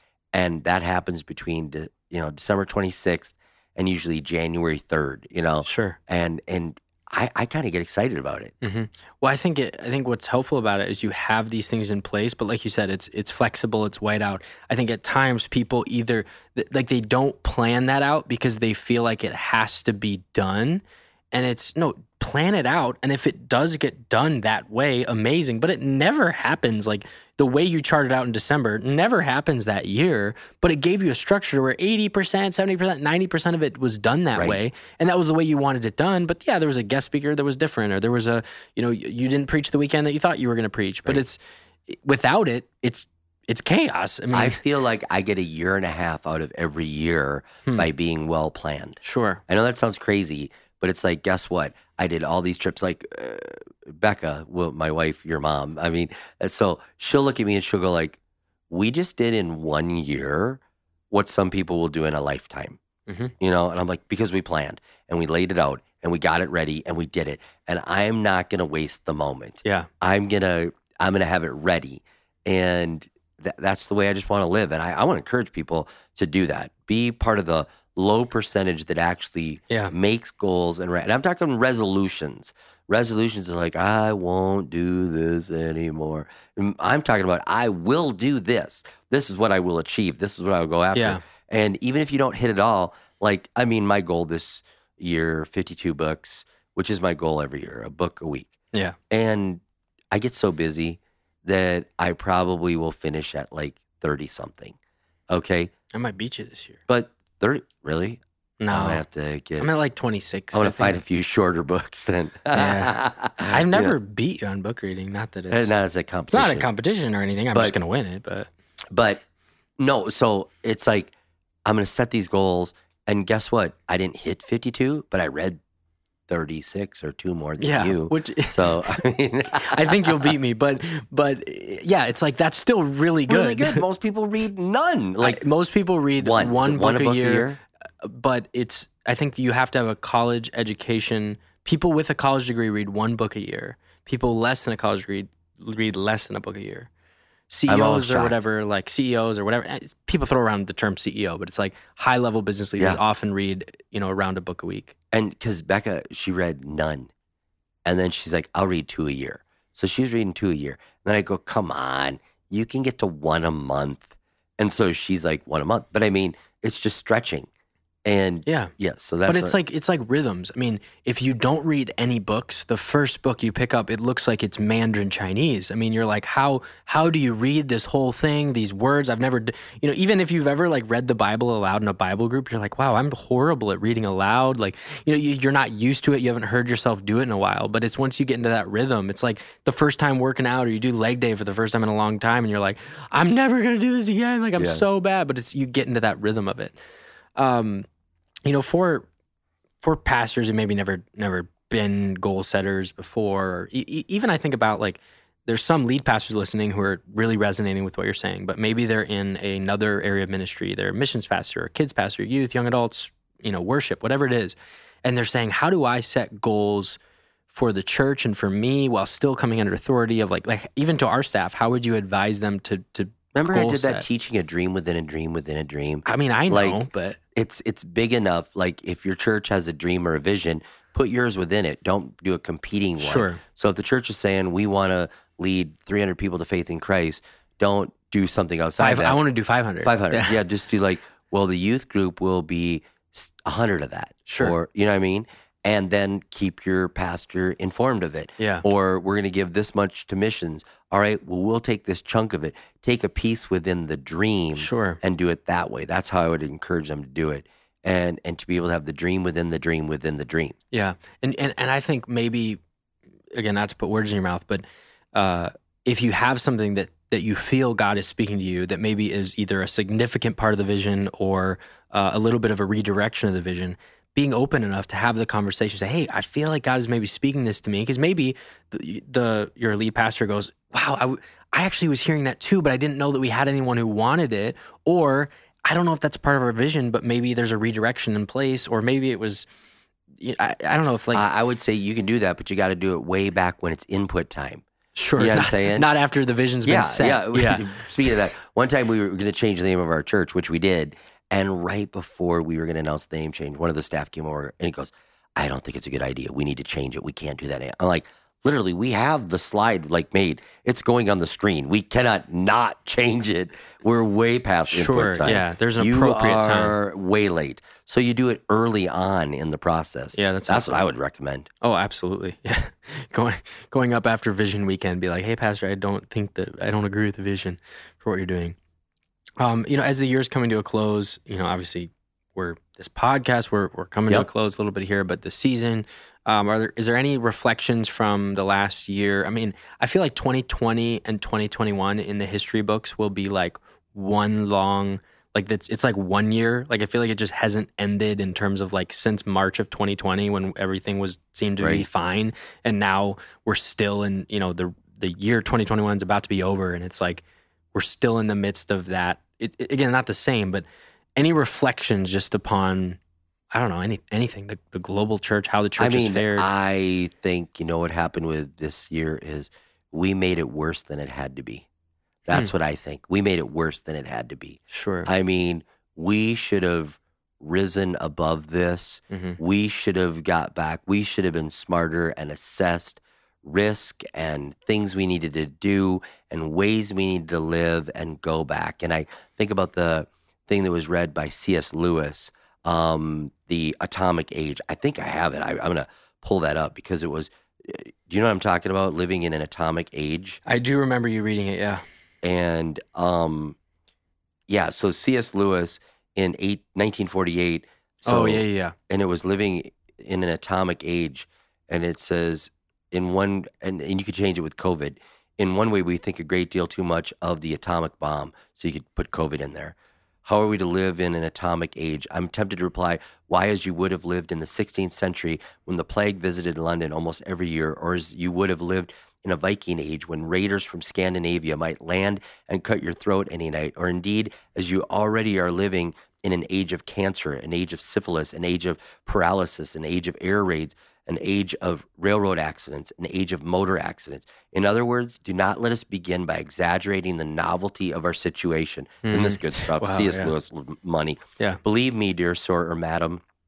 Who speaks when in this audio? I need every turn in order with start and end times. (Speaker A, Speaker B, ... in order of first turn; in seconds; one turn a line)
Speaker A: 0.3-8.5
Speaker B: 5.6-6.0
Speaker B: 8.6-44.6
Speaker A: 44.3-58.2
Speaker B: 49.0-49.4
Speaker A: 58.7-62.8
Speaker B: 63.1-63.3
Speaker A: 63.4-98.5
Speaker B: 69.6-69.9
Speaker B: 91.0-91.2
Speaker A: 99.1-104.8
Speaker A: 105.3-105.7
Speaker B: 105.9-106.8
Speaker A: 106.9-109.7
Speaker B: 108.6-109.0
Speaker B: 109.6-111.0
Speaker A: 110.5-114.0
Speaker B: 112.5-115.7
Speaker A: 115.5-116.7
Speaker B: 116.3-118.5
Speaker A: 118.9-119.2
Speaker A: 119.8-121.1
Speaker A: 121.7-125.6
Speaker A: 126.3-130.3
Speaker B: 127.6-128.8
Speaker B: 129.5-133.8
Speaker A: 133.3-135.4
Speaker B: 135.2-137.5
Speaker A: 136.2-137.6
Speaker B: 138.0-146.9
Speaker B: 147.5-154.9
Speaker A: 147.7-148.4
Speaker A: 155.1-157.1
Speaker A: 157.8-167.5
Speaker A: 168.1-169.6
Speaker B: 168.5-168.7
Speaker B: 169.3-196.8
Speaker A: 194.6-194.8
Speaker B: 197.4-197.9
Speaker B: 198.5-199.1
Speaker B: 199.8-217.0
Speaker B: 217.5-224.1
Speaker A: 223.3-226.8
Speaker B: 226.1-227.2
Speaker A: 227.3-239.2
Speaker B: 233.0-233.4
Speaker B: 238.8-240.4
Speaker A: 239.8-260.6
Speaker B: 244.3-244.6
Speaker B: 248.4-248.7
Speaker B: 254.6-255.0
Speaker B: 260.7-262.6
Speaker B: 263.3-289.5
Speaker B: 290.2-291.2
Speaker A: 291.1-294.6
Speaker B: 294.9-297.7
Speaker A: 295.2-295.9
Speaker A: 296.6-321.5
Speaker B: 314.7-316.8
Speaker B: 320.2-320.9
Speaker B: 321.6-328.6
Speaker B: 329.4-357.2
Speaker A: 351.6-351.9
Speaker B: 357.7-360.6
Speaker B: 361.2-363.0
Speaker B: 363.5-366.5
Speaker A: 365.8-371.7
Speaker A: 372.3-400.4
Speaker B: 374.7-375.1
Speaker B: 379.1-379.4
Speaker B: 400.5-401.8
Speaker A: 402.2-403.6
Speaker A: 404.5-453.2
Speaker B: 408.1-408.8
Speaker B: 449.1-450.3